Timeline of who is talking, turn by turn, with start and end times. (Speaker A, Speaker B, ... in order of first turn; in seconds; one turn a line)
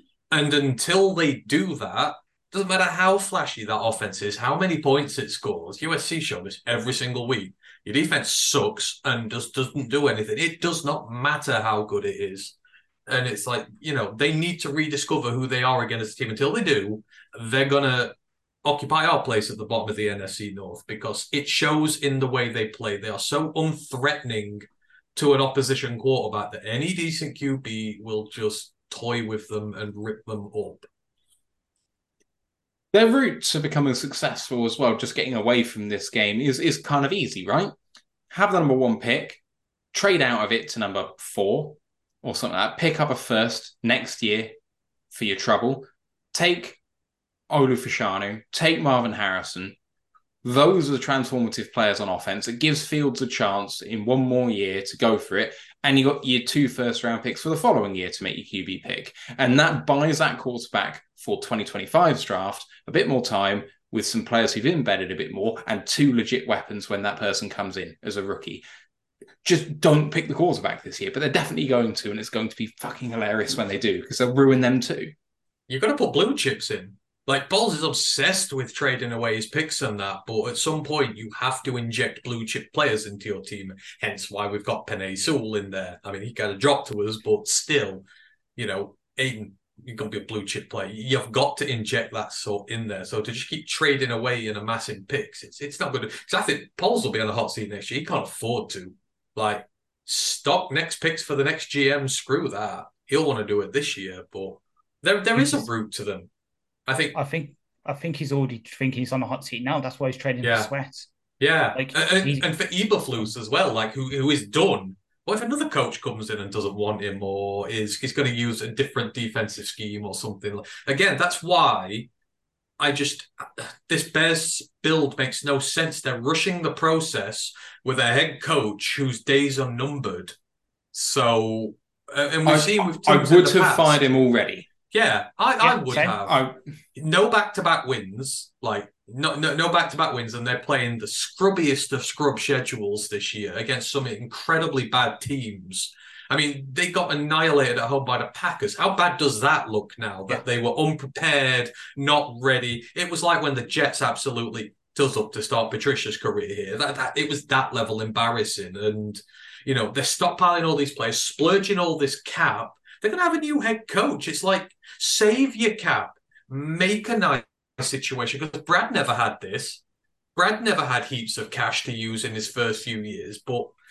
Speaker A: 0.3-12.6
Speaker A: 13.1-24.6
Speaker A: 25.2-30.9
Speaker B: 32.9-37.7
Speaker B: 38.3-39.4
Speaker B: 39.9-44.5
Speaker B: 45.1-46.8
Speaker B: 47.5-49.8
Speaker B: 50.4-68.6
Speaker B: 69.4-75.1
Speaker A: 75.7-88.0
Speaker A: 88.6-106.3
Speaker C: 105.3-105.7
Speaker A: 106.9-107.2
Speaker C: 107.1-111.1
Speaker A: 110.4-110.7
Speaker A: 111.4-122.1
Speaker C: 111.8-112.5
Speaker A: 122.8-130.3
Speaker A: 130.9-134.0
Speaker B: 132.4-134.7
Speaker A: 134.9-136.4
Speaker C: 135.6-136.2
Speaker B: 136.3-136.6
Speaker A: 136.9-169.8
Speaker A: 170.4-173.7